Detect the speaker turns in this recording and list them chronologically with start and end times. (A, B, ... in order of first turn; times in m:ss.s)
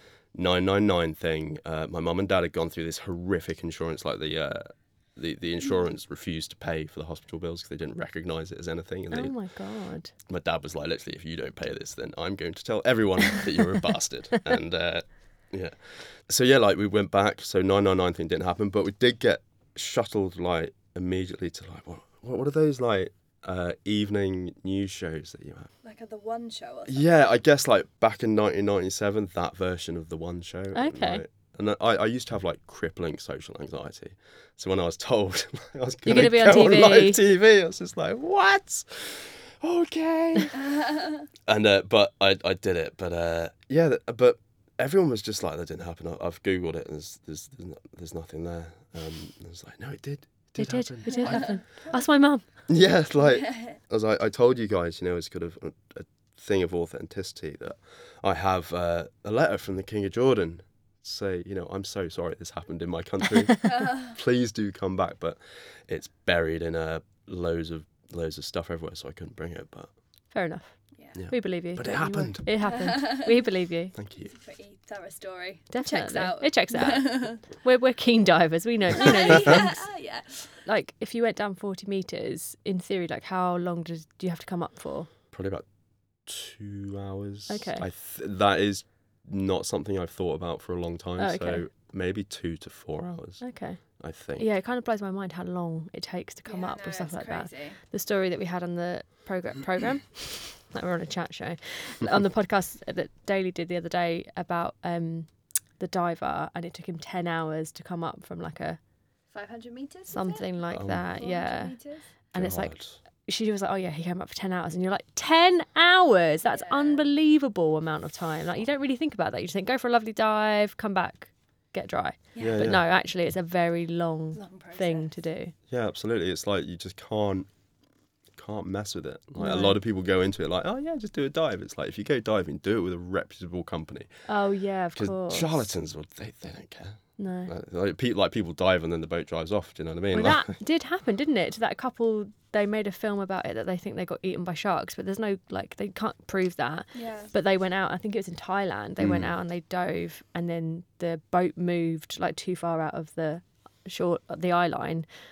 0:00.3-0:09.3 A
0:09.1-0:10.1 B
0:10.3-0:25.7 A
0:25.8-0:27.1 C
0:26.9-0:40.8 A
0:30.7-0:31.2 B
0:36.0-0:37.2 B
0:40.5-0:41.2 C
0:41.5-0:51.5 A
0:50.6-0:52.4 B
0:51.1-0:51.5 C
0:52.7-1:09.9 A
0:53.3-0:53.7 C
1:03.8-1:04.0 C
1:10.3-1:10.7 B
1:11.2-1:12.5 A
1:11.3-1:13.9 B
1:12.6-1:13.4 C
1:13.9-1:14.3 A
1:14.3-1:17.4 C
1:15.7-1:19.8 B
1:18.9-1:20.6 C
1:20.6-1:25.1 B
1:25.3-1:25.6 A
1:26.2-1:34.4 A
1:27.5-1:27.8 B
1:31.2-1:31.6 B
1:33.4-1:33.8 B
1:34.4-1:45.3 B
1:36.5-1:37.8 C
1:45.8-1:48.8 B
1:49.3-1:50.5 C
1:50.1-1:51.7 B
1:50.7-1:51.1 A
1:51.1-1:52.0 C
1:52.3-2:05.5 B
1:52.3-1:53.0 A
1:56.4-1:57.0 C
2:02.3-2:02.7 C
2:02.4-2:02.8 A
2:04.3-2:05.1 C
2:05.7-2:07.5 A
2:08.4-2:14.1 A
2:09.4-2:09.8 B
2:14.3-2:15.6 B
2:15.0-2:20.5 A
2:17.2-2:17.5 B
2:20.1-2:35.0 B
2:26.9-2:27.3 C
2:29.0-2:29.3 A